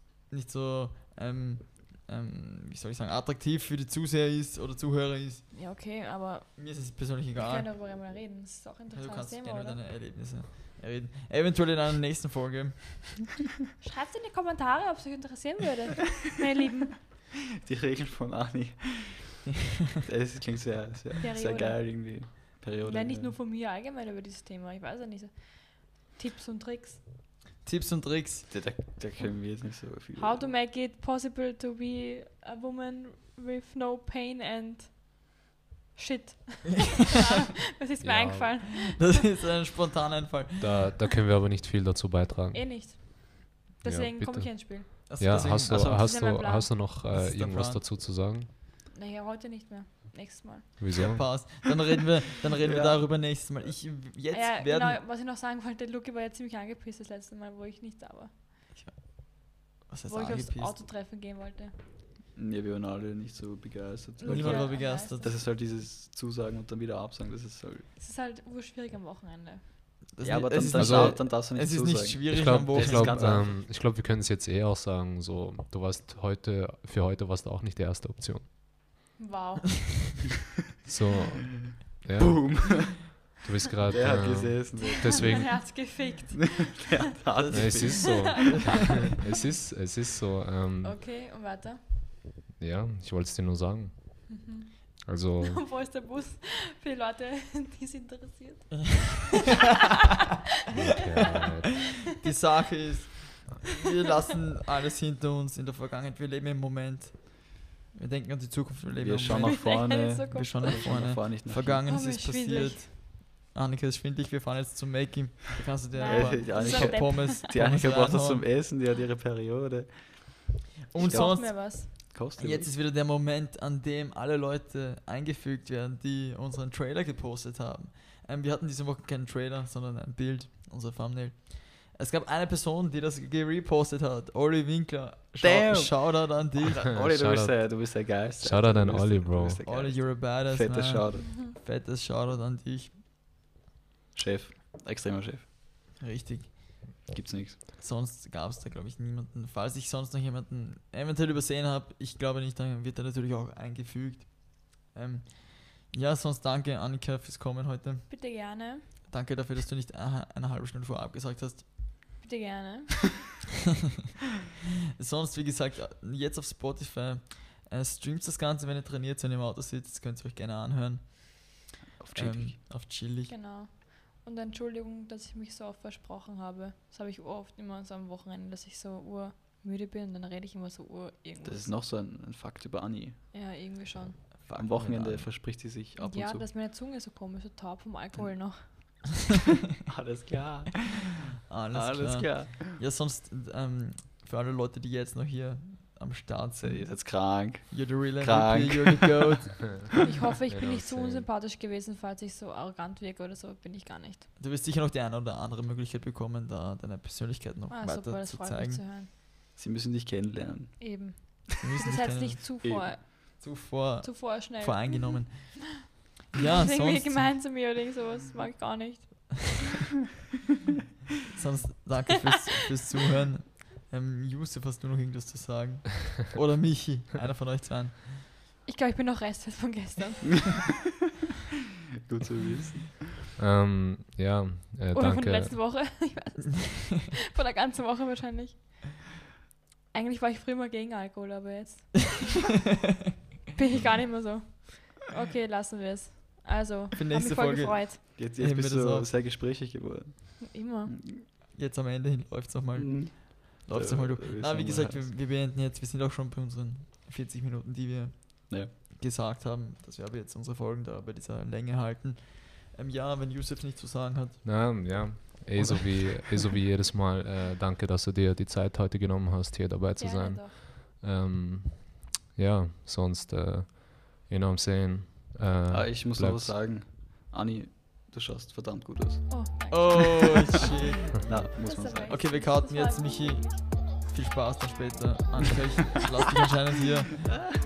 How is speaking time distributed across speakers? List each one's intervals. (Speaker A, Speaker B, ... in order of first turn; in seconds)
Speaker A: 0.3-5.5, 6.6-7.7, 8.9-13.2, 27.6-28.5, 38.8-40.9, 45.1-46.0, 47.1-47.8, 51.0-55.0, 58.7-60.8, 64.3-65.3, 70.1-73.2, 102.2-118.5, 120.9-137.0, 139.7-143.0, 146.0-147.1, 147.8-158.1, 159.1-161.8, 165.0-173.3, 184.4-185.3, 191.5-199.9, 204.4-208.8, 211.6-217.3, 221.3-228.2, 247.0-249.1, 251.5-264.8, 265.6-266.3, 279.7-287.3
Speaker B: 5.5-9.8, 13.8-17.0, 21.2-27.0, 30.2-35.2, 36.0-39.1, 42.5-44.9, 45.9-46.8, 48.9-50.8, 54.3-58.4, 60.1-61.7, 64.2-65.3, 68.0-70.0, 79.2-80.0, 84.8-89.2, 90.8-91.8, 94.3-99.2, 109.3-110.9, 111.9-112.9, 115.9-117.4, 121.0-121.9, 141.2-141.6, 158.1-158.9, 162.2-163.2, 173.3-181.7, 183.3-184.3, 186.0-189.1, 200.0-204.3, 207.7-209.1, 210.8-213.4, 214.0-215.5, 216.3-219.6, 228.7-230.7, 234.9-239.2, 239.9-242.3, 243.6-248.0, 250.5-251.0, 270.0-270.6, 279.3-283.6
Speaker C: 17.6-19.5, 20.1-23.3, 28.5-30.5, 45.7-46.0, 52.6-53.1, 62.4-67.9, 70.2-73.6, 82.2-83.2, 83.9-85.9, 86.8-88.5, 109.0-111.8, 116.0-122.7, 135.3-141.4, 144.1-145.5, 147.1-147.6, 172.0-172.6, 181.4-183.2, 184.5-186.4, 189.9-191.1, 191.7-192.7, 196.6-199.4, 209.6-211.2, 212.6-212.9, 232.1-233.1, 248.2-250.7, 252.8-255.1, 275.7-279.7, 281.2-282.2
Speaker D: 38.0-38.5, 40.6-43.3, 43.9-48.5, 50.8-51.3, 70.8-71.2, 72.3-78.5, 80.8-85.7, 87.5-91.0, 92.6-94.5, 95.1-95.6, 100.7-102.0, 137.0-139.6, 200.5-201.3, 233.4-235.6, 264.4-276.6